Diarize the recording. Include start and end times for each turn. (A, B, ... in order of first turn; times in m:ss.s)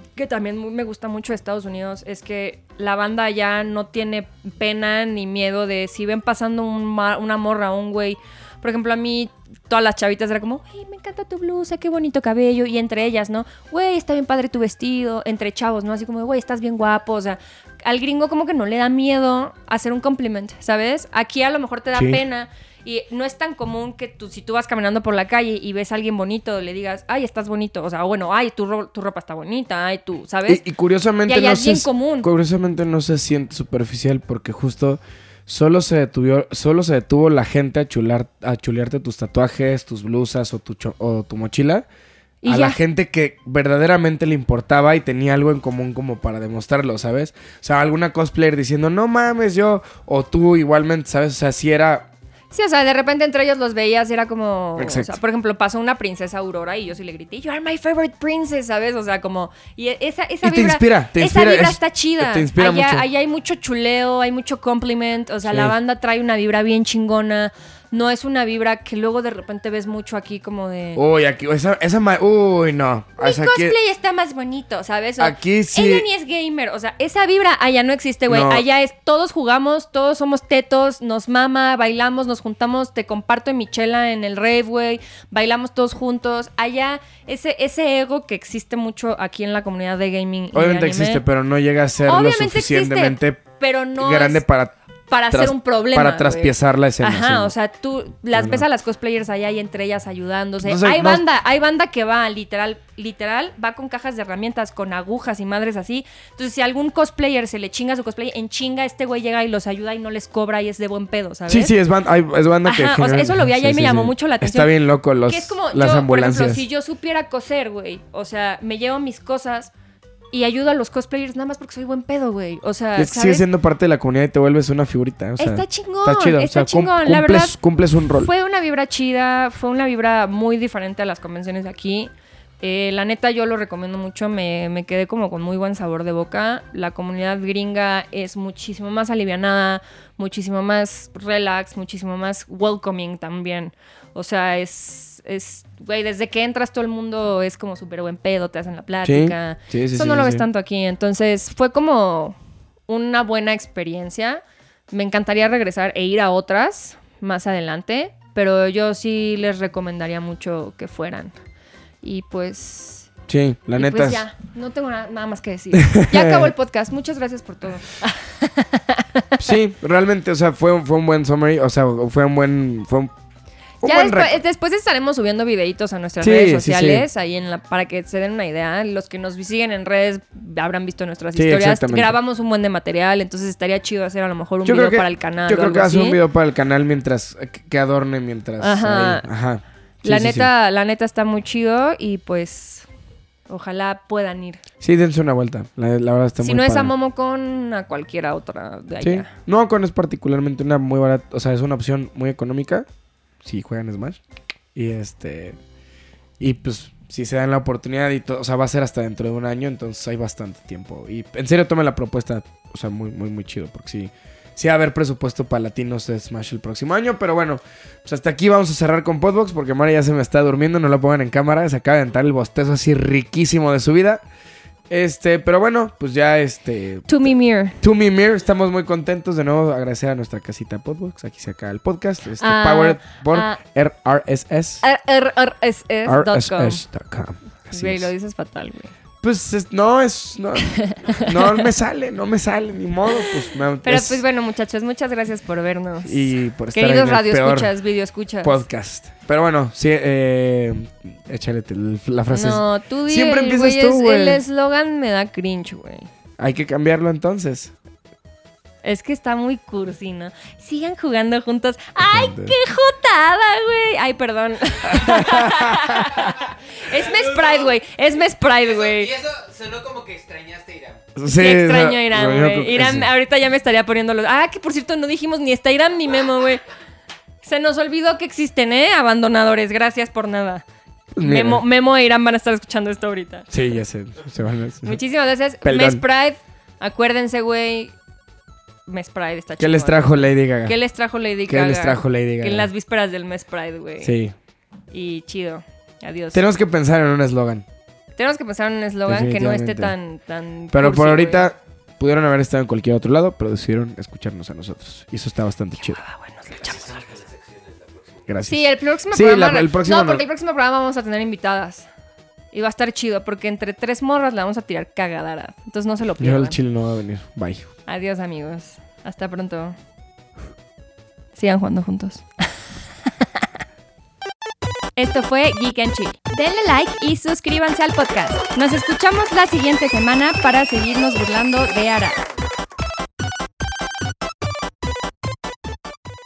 0:00.2-0:30.6 A
0:21.9-0:22.2 B
0:30.5-0:41.8 B
0:31.3-0:32.3 A
0:42.4-0:42.8 A
0:42.4-0:52.1 B
0:52.5-1:11.0 A
0:54.8-0:55.2 B
1:00.4-1:03.0 B
1:05.5-1:05.7 B
1:11.0-1:13.8 B
1:13.2-1:31.2 A
1:15.2-1:16.1 B
1:18.3-1:18.6 B
1:30.5-1:34.8 B
1:32.0-1:34.4 A
1:35.1-1:51.7 A
1:35.3-1:37.5 B
1:38.3-1:38.6 B
1:40.6-1:41.2 B
1:51.5-1:56.6 B
1:52.6-1:54.7 A
1:55.2-1:59.7 A
2:00.3-2:03.4 A
2:03.0-2:08.3 B
2:05.4-2:07.6 A
2:08.2-2:32.4 A
2:29.0-2:30.4 B
2:32.9-2:41.3 A
2:42.0-2:43.1 A
2:43.3-2:44.2 B
2:43.8-2:49.4 A
2:45.7-2:46.5 B
2:49.4-2:53.1 B
2:53.8-2:54.4 B
2:53.8-3:06.2 A
2:56.2-2:57.1 B
3:01.4-3:02.2 B
3:04.6-3:10.5 B
3:08.6-3:09.3 A
3:10.0-3:12.9 A
3:13.5-3:14.6 A
3:14.8-3:16.9 B
3:16.4-3:19.3 A
3:19.0-3:22.9 B
3:23.4-3:24.2 B
3:24.7-3:25.6 B
3:26.4-3:44.2 B
3:44.9-3:54.8 B
3:47.1-3:47.8 A
3:52.4-3:53.6 A
3:54.8-3:56.8 A
3:56.0-3:58.1 B
3:57.7-3:58.9 A
3:59.2-4:04.2 B
4:00.7-4:01.6 A
4:03.8-4:08.6 A
4:06.0-4:07.7 B
4:08.4-4:14.4 B
4:12.3-4:16.1 A
4:16.4-4:17.7 B
4:18.8-4:29.1 A
4:22.1-4:22.5 B
4:24.8-4:26.1 B
4:26.9-4:27.7 C
4:28.6-4:31.0 C
4:31.2-4:33.1 B
4:31.3-4:36.6 A
4:37.4-4:40.6 A
4:41.1-4:41.6 B
4:41.2-4:43.5 A
4:43.5-4:45.0 B
4:44.8-4:47.9 A
4:45.6-4:46.0 B
4:48.9-4:54.2 A
4:49.6-4:50.8 B
4:51.5-4:52.7 B
4:54.0-4:54.3 B
4:54.9-4:56.4 A
4:56.3-4:57.6 B
4:58.2-5:01.5 A
4:59.0-4:59.9 B
5:00.7-5:06.0 B
5:05.8-5:07.0 A
5:06.6-5:08.3 C
5:08.3-5:10.2 B
5:08.4-5:11.9 A
5:12.5-5:16.6 A
5:16.2-5:17.7 B
5:17.9-5:19.8 A
5:21.3-5:22.2 A
5:25.0-5:32.2 A